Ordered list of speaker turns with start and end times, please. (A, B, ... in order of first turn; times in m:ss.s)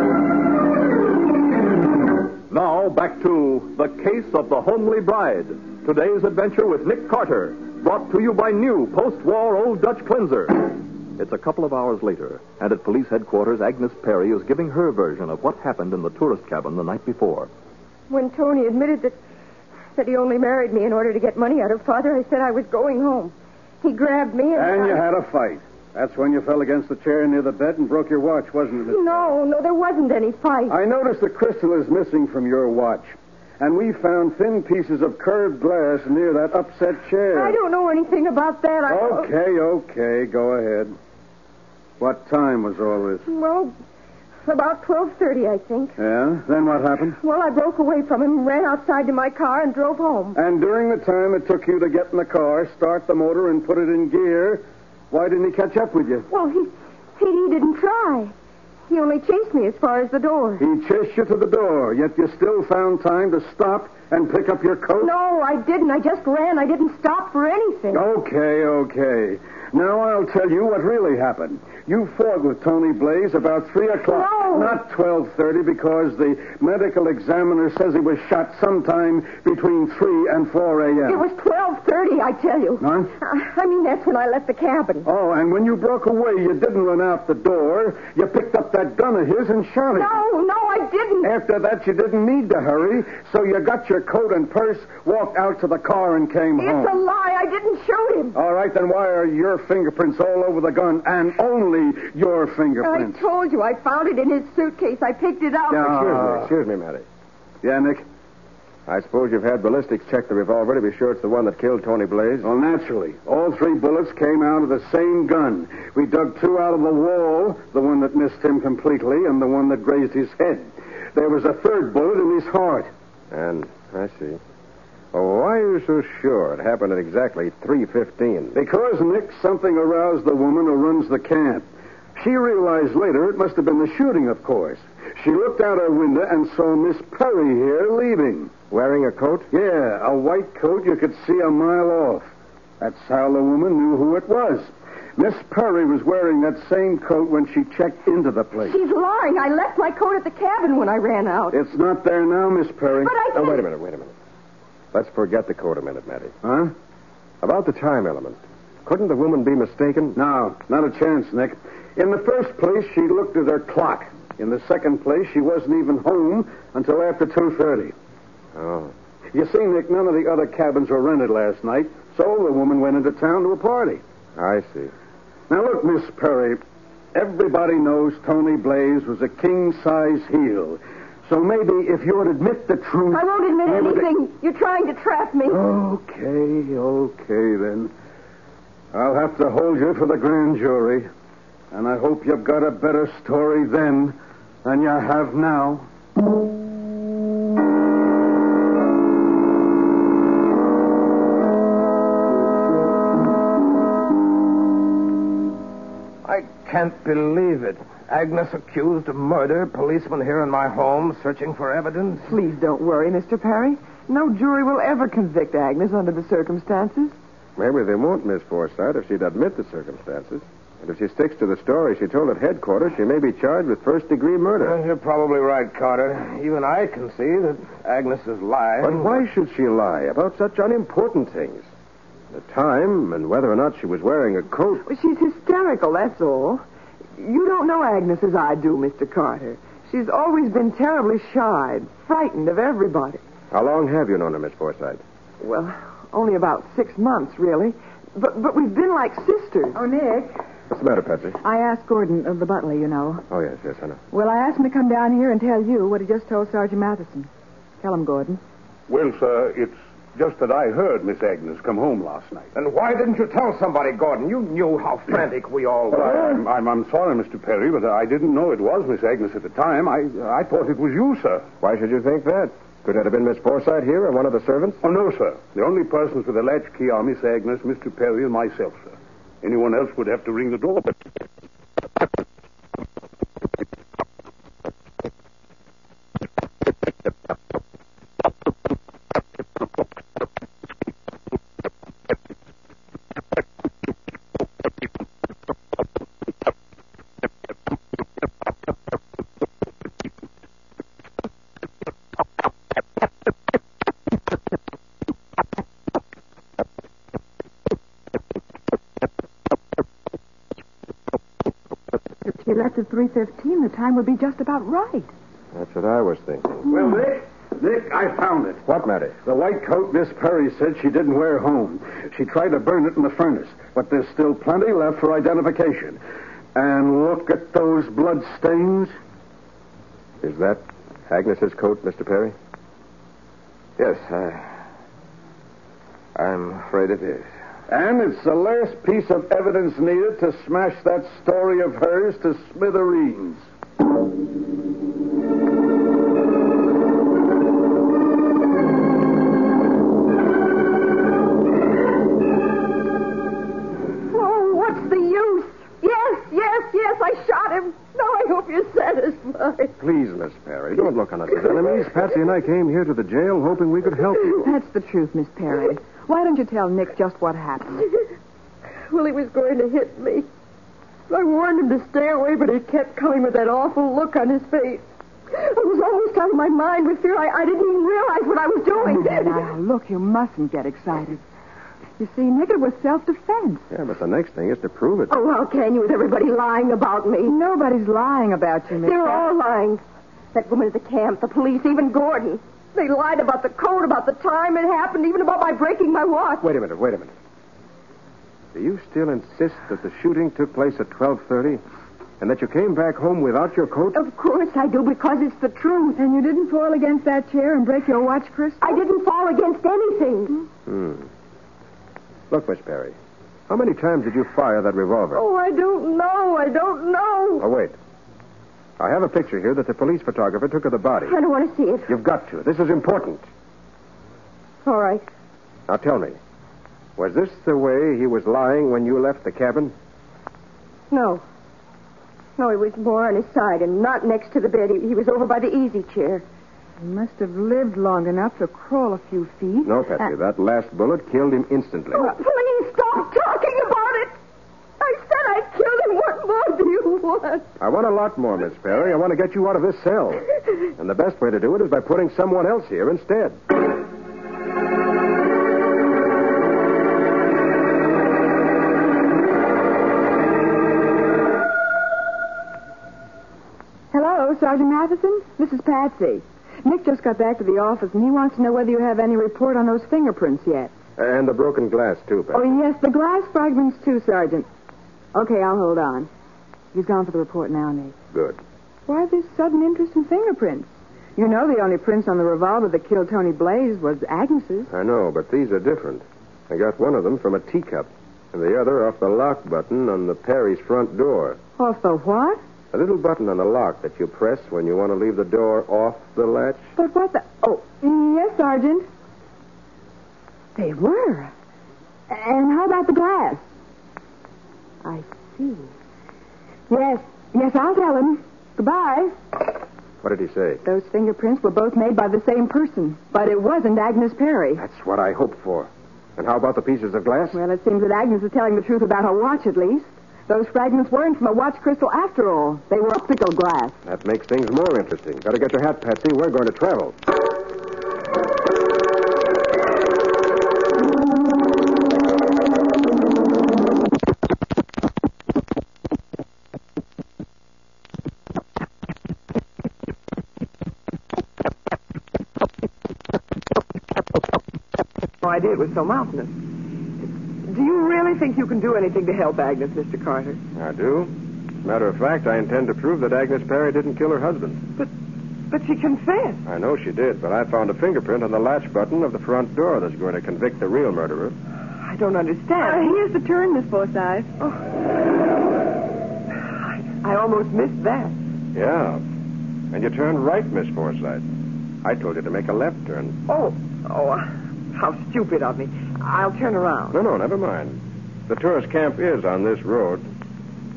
0:02.5-0:17.5 A
0:18.1-0:19.2 B
0:19.9-0:25.0 B
0:24.5-0:29.3 C
0:28.8-0:30.8 B
0:30.7-0:37.6 C
0:37.3-0:39.3 B
0:38.8-0:40.9 C
0:42.0-0:43.2 C
0:43.2-0:43.7 B
0:44.4-0:45.9 B
0:46.0-0:47.2 C
0:47.2-0:50.4 B
0:50.3-0:56.2 C
0:56.3-0:58.3 B
0:58.9-1:00.6 B
1:00.6-1:05.1 C
1:05.0-1:08.1 B
1:07.9-1:21.2 C
1:14.0-1:14.8 B
1:21.0-1:25.1 B
1:22.8-1:23.1 C
1:25.0-1:30.2 C
1:29.9-1:31.3 B
1:31.2-1:37.0 C
1:36.6-1:38.4 B
1:38.3-1:43.2 C
1:42.8-1:46.2 B
1:45.7-1:46.5 C
1:45.8-1:47.0 D
1:47.6-1:48.0 C
1:48.9-1:52.5 D
1:52.4-2:02.9 C
2:03.3-2:04.4 D
2:05.1-2:08.6 D
2:08.5-2:18.5 C
2:18.7-2:19.5 D
2:19.5-2:22.3 C
2:22.8-2:28.8 C
2:28.6-2:31.6 B
2:31.5-2:33.2 C
2:32.9-2:33.6 B
2:33.3-2:34.1 D
2:34.9-2:36.3 D
2:36.4-2:36.7 C
2:37.4-2:40.2 D
2:40.1-2:47.9 C
2:48.6-2:48.9 D
2:49.3-2:54.0 C
2:54.4-2:54.9 D
2:55.5-2:56.6 C
2:57.1-3:04.1 C
3:03.1-3:05.6 B
3:05.5-3:07.9 C
3:08.9-3:11.1 C
3:11.7-3:15.9 C
3:26.2-3:32.3 E
3:32.3-3:37.2 F
3:37.6-3:44.8 D
3:44.6-3:49.2 E
3:48.8-3:51.7 D
3:52.3-3:54.8 D
3:54.8-3:56.6 F
3:57.2-4:03.2 F
4:03.5-4:05.0 D
4:05.4-4:09.8 F
4:09.7-4:10.4 G
4:10.7-4:11.4 D
4:11.4-4:13.2 G
4:13.3-4:14.0 D
4:14.1-4:17.3 G
4:17.8-4:18.4 G
4:18.9-4:22.5 H
4:22.5-4:26.4 E
4:26.1-4:31.4 H
4:31.6-4:34.8 D
4:34.8-4:40.9 H
5:12.2-5:15.1 G
5:15.5-5:16.7 D
5:16.7-5:17.9 C
5:17.9-5:18.6 H
5:18.6-5:19.2 D
5:19.2-5:26.0 C
5:26.5-5:28.9 C
5:30.2-5:32.3 D
5:33.8-5:34.5 E
5:36.2-5:37.2 E
5:37.7-5:43.4 C
5:54.1-5:59.7 B
5:59.8-6:04.5 D
6:04.4-6:07.9 G
6:08.9-6:10.3 B
6:11.1-6:19.4 B
6:18.7-6:21.2 G
6:22.0-6:23.6 G
6:23.7-6:25.2 D
6:25.1-6:27.4 B
6:27.2-6:29.3 G
6:28.8-6:36.5 B
6:36.4-6:37.1 D
6:38.5-6:41.6 D
6:42.2-6:44.0 D
6:43.9-6:46.0 B
6:46.0-6:48.8 G
6:48.6-6:50.5 B
6:50.6-6:51.1 D
6:52.3-6:53.0 D
6:53.5-6:55.2 D
6:55.1-6:57.5 B
6:57.4-6:57.7 D
6:58.8-7:01.2 D
7:01.0-7:01.9 B
7:01.9-7:03.2 D
7:04.6-7:05.1 B
7:05.7-7:06.2 D
7:07.0-7:09.7 D
7:10.9-7:11.2 B
7:12.4-7:16.2 B
7:16.8-7:19.8 G
7:19.6-7:22.0 D
7:21.9-7:24.2 B
7:24.8-7:27.5 B
7:27.6-7:33.4 D
7:43.9-7:50.7 G
7:51.0-7:52.5 D
7:52.3-7:54.5 G
7:55.1-7:56.1 G
7:56.7-7:57.9 G
7:58.1-7:58.4 D
7:58.9-8:04.7 G
8:04.7-8:11.4 D
8:11.6-8:12.4 G
8:12.7-8:16.6 D
8:16.8-8:18.8 G
8:20.6-8:21.3 G
8:22.1-8:23.4 G
8:24.8-8:25.7 G
8:26.7-8:29.1 G
8:30.0-8:30.6 D
8:30.6-8:34.6 G
8:34.6-8:37.4 D
8:37.3-8:43.8 G
8:43.8-8:47.0 D
9:05.2-9:06.4 F
9:07.0-9:10.4 F
9:10.6-9:14.6 D
9:15.5-9:16.4 F
9:16.4-9:21.3 D
9:21.8-9:23.0 F
9:22.6-9:24.3 G
9:27.0-9:28.1 F
9:28.5-9:29.0 D
9:29.7-9:31.2 D
9:31.8-9:33.2 D
9:33.3-9:37.0 F
9:36.9-9:40.0 D